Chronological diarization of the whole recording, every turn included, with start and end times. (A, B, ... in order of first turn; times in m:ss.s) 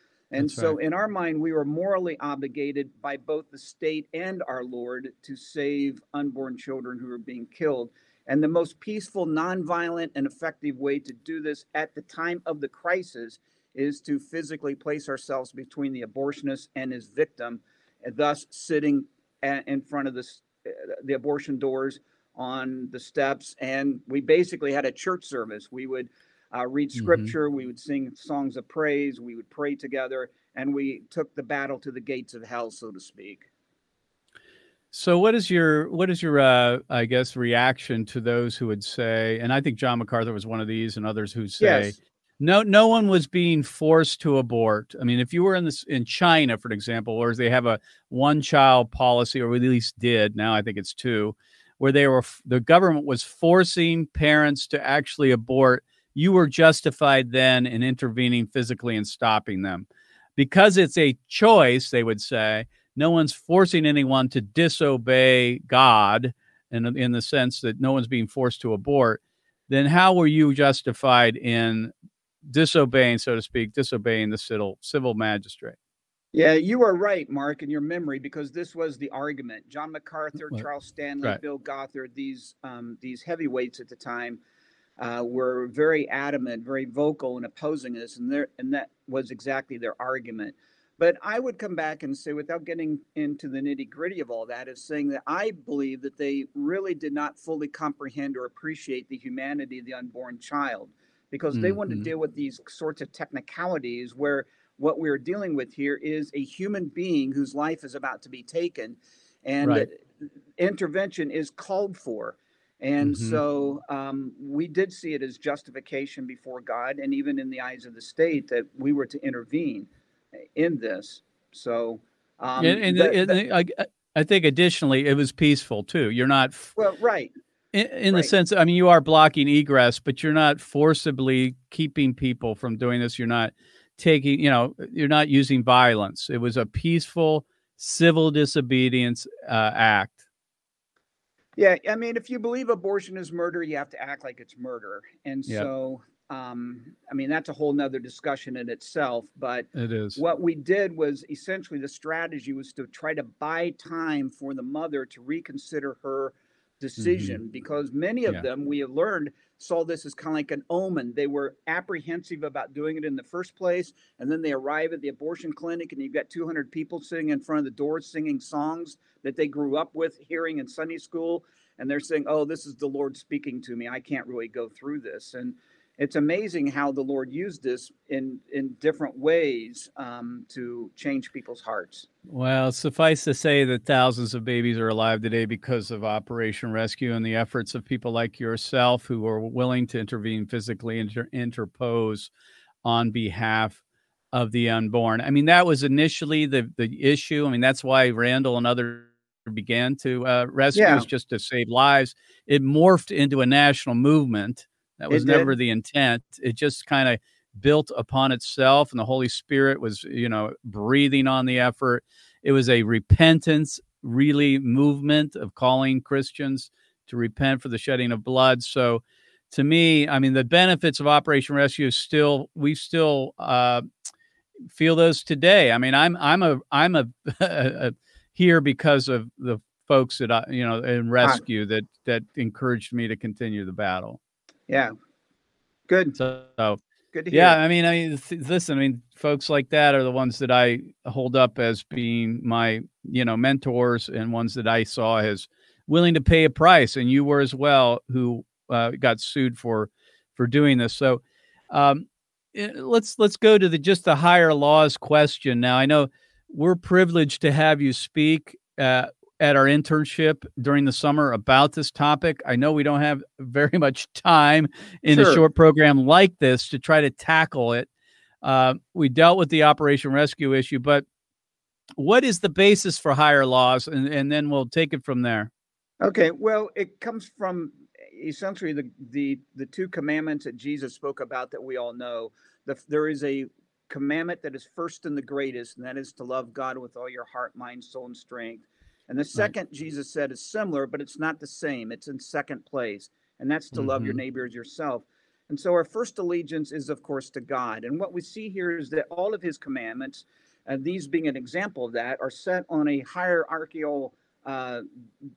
0:00.3-0:33.5 A
0:00.4-0:00.7 B
0:27.0-0:27.3 B
0:34.9-1:11.9 B
0:41.6-0:41.9 A
1:12.4-1:15.8 B
1:16.3-1:24.4 A
1:25.0-1:59.9 A
1:41.5-1:42.1 B
1:53.0-1:53.4 B
2:00.5-2:03.4 A
2:02.6-2:06.7 B
2:06.8-2:07.3 A
2:07.7-2:20.2 B
2:21.6-3:02.1 A
2:29.7-2:30.2 B
2:37.0-2:37.4 B
3:02.3-3:12.3 B
3:12.8-3:13.8 B
3:14.3-3:43.8 B
3:20.7-3:21.1 A
3:25.1-3:25.5 A
3:44.7-3:54.2 B
3:54.7-3:54.9 A
3:55.9-3:56.2 A
3:56.1-3:56.8 B
3:57.1-3:57.6 A
3:57.3-4:27.9 B
4:25.1-4:25.4 A
4:28.4-4:31.0 B
4:32.0-4:35.5 B
4:36.0-5:04.8 A
4:53.7-4:54.2 B